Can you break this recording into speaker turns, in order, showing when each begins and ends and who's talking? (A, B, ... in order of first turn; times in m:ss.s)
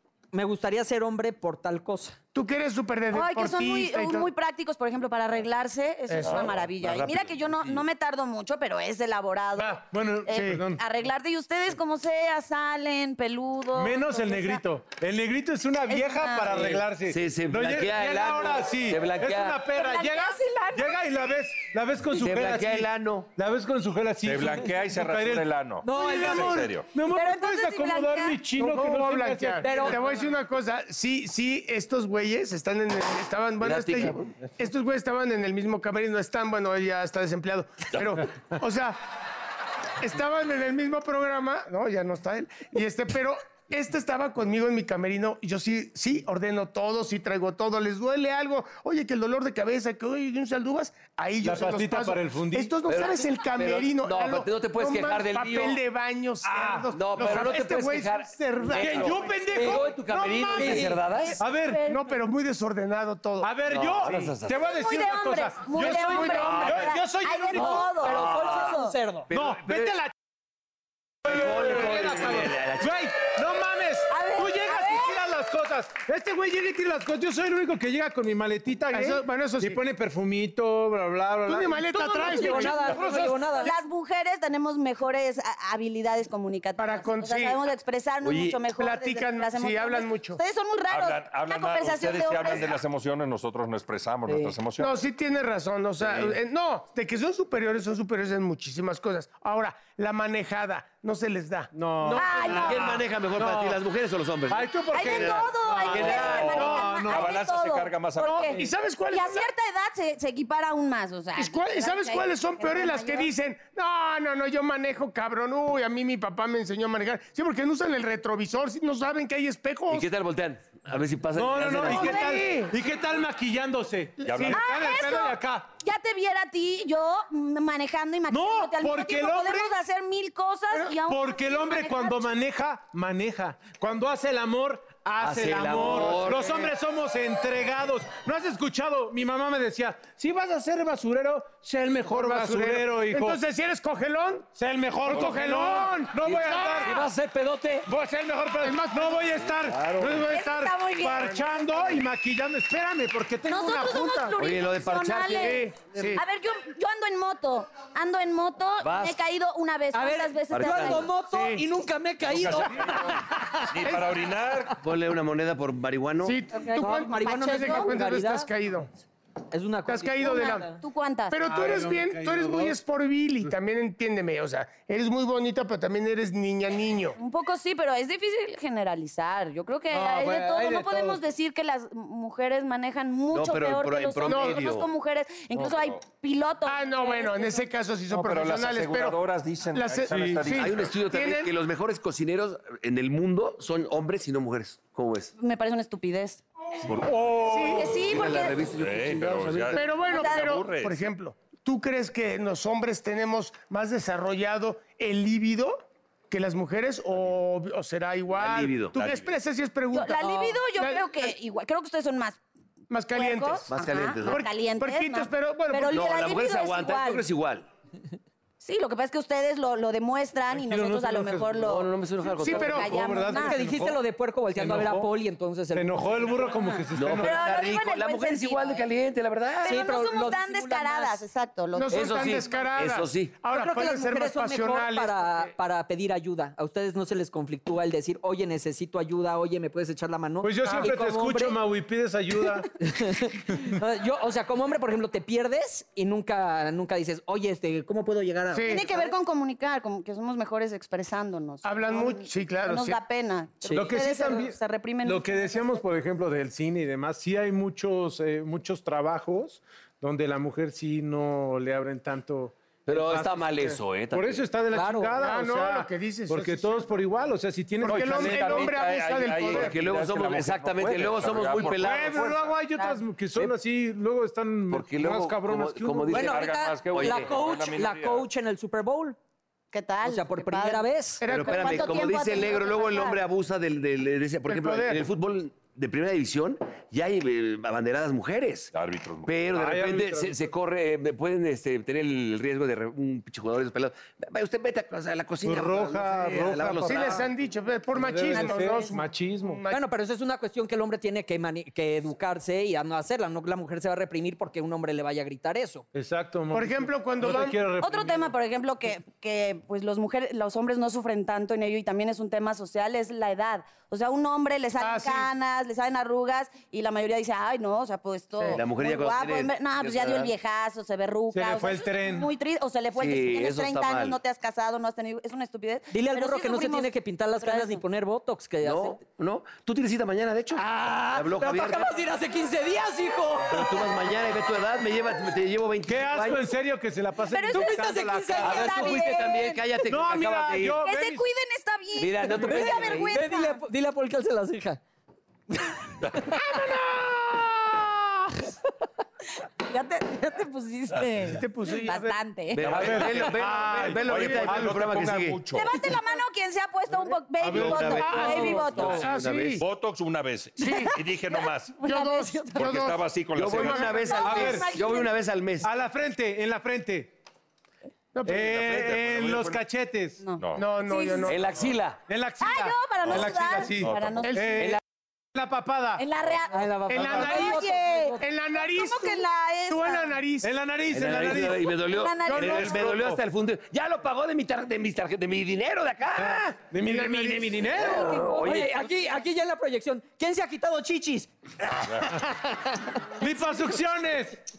0:00.3-0:02.2 A
0:02.3-0:04.3 B
0:03.1-0:14.6 C
0:06.1-0:06.5 B
0:06.2-0:06.7 D
0:06.4-0:07.8 E
0:09.6-0:10.8 F
0:10.3-0:10.6 B
0:13.8-0:30.0 F
0:15.9-0:16.7 C
0:16.6-0:19.6 E
0:19.7-0:21.0 C
0:22.1-0:23.3 E
0:24.2-0:26.9 D
0:25.8-0:26.7 A
0:27.1-0:28.4 C
0:28.6-0:39.0 B
0:29.6-0:30.0 A
0:33.6-0:34.4 E
0:40.0-0:59.4 B
0:51.4-0:52.7 F
0:52.9-0:55.8 E
0:56.4-0:56.9 F
0:56.9-1:01.4 E
0:58.8-1:01.8 F
0:59.5-0:59.8 A
1:00.4-1:00.9 C
1:00.6-1:01.0 A
1:01.5-1:02.0 C
1:01.9-1:03.5 B
1:03.4-1:08.0 F
1:03.7-1:04.6 E
1:04.6-1:09.0 C
1:05.8-1:06.9 B
1:07.5-1:09.3 A
1:07.6-1:08.7 E
1:09.3-1:09.9 E
1:09.3-1:10.1 F
1:11.2-1:13.0 E
1:11.2-1:23.3 F
1:14.1-1:15.3 C
1:18.9-1:19.8 B
1:21.5-1:23.6 B
1:22.1-1:23.7 A
1:23.6-1:32.8 C
1:26.8-1:27.6 B
1:28.2-1:28.6 E
1:28.8-1:30.4 B
1:30.9-1:35.0 D
1:34.8-1:43.0 B
1:36.0-1:36.3 E
1:41.7-1:43.8 F
1:42.2-1:42.9 C
1:42.6-1:46.8 E
1:44.5-1:47.4 F
1:44.9-1:48.6 C
1:47.0-1:48.6 D
1:48.2-1:49.5 B
1:49.1-1:53.3 C
1:51.4-2:00.1 B
1:59.9-2:02.2 E
2:01.4-2:05.7 F
2:01.7-2:02.8 B
2:01.8-2:02.3 C
2:04.2-2:04.6 B
2:04.3-2:04.6 D
2:04.5-2:12.3 C
2:08.3-2:09.8 F
2:11.0-2:23.4 F
2:15.2-2:16.6 E
2:22.1-2:24.5 B
2:24.6-2:27.1 F
2:25.1-2:27.0 B
2:26.2-2:27.9 E
2:27.9-2:34.4 F
2:28.6-2:29.3 B
2:29.6-2:30.3 E
2:30.3-2:31.7 C
2:33.5-2:41.1 C
2:34.4-2:36.2 E
2:35.3-2:36.2 B
2:38.8-2:39.2 E
2:39.9-2:43.6 A
2:40.5-2:41.1 E
2:41.3-2:41.6 B
2:42.2-2:44.8 D
2:44.8-2:46.4 E
2:46.2-2:48.9 B
2:46.6-2:47.9 C
2:46.8-2:48.5 A
2:49.5-2:50.8 A
2:49.9-2:50.8 B
2:50.5-2:51.4 C
2:51.3-2:57.2 B
2:51.5-2:52.8 F
2:57.2-3:07.6 C
2:59.9-3:01.2 F
3:03.3-3:04.9 E
3:04.2-3:04.8 B
3:05.7-3:06.0 D
3:06.7-3:09.2 B
3:08.1-3:10.9 D
3:09.7-3:11.6 B
3:10.1-3:10.5 F
3:10.6-3:15.3 E
3:15.4-3:16.4 C
3:17.0-3:17.9 F
3:17.4-3:17.9 B
3:17.6-3:18.6 C
3:17.8-3:19.8 E
3:18.8-3:21.0 D
3:19.7-3:31.4 B
3:20.0-3:20.4 C
3:28.3-3:29.0 E
3:29.9-3:32.4 C
3:32.9-3:36.1 B
3:33.1-3:37.2 C
3:33.7-3:34.4 E
3:35.9-3:37.7 E
3:38.6-3:41.9 C
3:40.5-3:41.6 F
3:41.6-3:42.9 E
3:42.4-3:43.0 B
3:42.4-3:43.6 C
3:42.8-3:44.0 F
3:43.3-3:46.5 A
3:44.5-3:45.1 F
3:45.7-3:47.4 F
3:46.9-3:49.8 E
3:47.2-3:48.9 C
3:49.6-3:51.9 C
3:49.6-3:51.2 A
3:51.8-3:55.5 B
3:51.9-3:53.3 E
3:53.5-4:01.6 A
4:00.4-4:02.7 F
4:00.6-4:00.9 B
4:02.8-4:09.1 A
4:08.5-4:08.9 B
4:08.6-4:15.8 C
4:11.6-4:13.0 B
4:13.7-4:28.7 F
4:22.9-4:24.4 E
4:24.7-4:25.2 A
4:25.2-4:26.9 B
4:27.8-4:29.8 B
4:27.8-4:32.6 D
4:29.4-4:32.4 E
4:31.7-4:36.3 F
4:34.7-4:37.4 E
4:36.1-4:39.2 A
4:36.2-4:38.3 D
4:39.7-4:43.2 C
4:40.0-4:41.2 A
4:41.2-4:42.2 B
4:41.3-4:48.7 E
4:44.5-4:45.0 B
4:48.7-4:49.5 D
4:49.3-4:57.2 E
4:49.5-4:50.4 F
4:55.4-4:57.2 F
4:56.8-4:59.8 B
4:57.9-4:59.6 F
4:58.3-4:58.9 C
4:59.7-5:05.8 A
5:05.9-5:08.3 F
5:06.5-5:07.6 B
5:07.8-5:27.8 C
5:14.8-5:15.3 B
5:18.5-5:20.3 E
5:21.3-5:22.3 F
5:23.0-5:24.2 E
5:25.9-5:29.0 A
5:28.6-5:31.9 E
5:30.6-5:34.0 A
5:33.5-5:36.5 E
5:35.9-5:38.9 F
5:37.3-5:39.6 C
5:37.5-5:39.0 A
5:38.4-5:40.8 E
5:39.9-5:41.2 F
5:40.8-5:43.6 C
5:42.0-5:43.1 E
5:42.4-5:44.8 A
5:45.5-5:46.4 A
5:46.5-5:47.5 B
5:49.6-5:52.8 C
5:51.3-5:52.2 B
5:52.5-5:55.4 E
5:52.7-5:54.9 F
5:52.7-5:53.5 D
5:54.0-5:55.8 D
5:55.5-5:59.1 C
5:57.4-5:58.6 F
5:57.4-5:59.6 E
5:58.0-5:59.6 B
5:59.6-6:01.8 D
6:00.6-6:01.0 B
6:00.6-6:02.7 C
6:01.8-6:04.3 B
6:02.6-6:04.0 D
6:03.4-6:05.7 E
6:03.9-6:05.1 C
6:04.2-6:04.7 F
6:05.6-6:07.2 F
6:08.1-6:08.6 B
6:08.3-6:10.2 F
6:08.4-6:09.6 D
6:10.2-6:11.4 C
6:10.4-6:10.7 D
6:10.6-6:11.5 B
6:11.2-6:12.0 E
6:12.1-6:14.8 F
6:12.4-6:14.3 C
6:13.0-6:14.5 D
6:14.2-6:14.7 B
6:15.3-6:16.0 F
6:16.0-6:20.1 C
6:16.5-6:18.2 A
6:16.9-6:17.7 B
6:17.0-6:17.5 F
6:18.2-6:20.5 B
6:20.4-6:21.7 F
6:20.9-6:26.6 E
6:21.8-6:22.8 C
6:22.2-6:23.0 B
6:22.8-6:23.2 F
6:26.2-6:28.2 F
6:26.8-6:27.7 B
6:27.8-6:28.8 E
6:28.2-6:31.3 A
6:31.9-6:32.2 D
6:33.1-6:34.4 F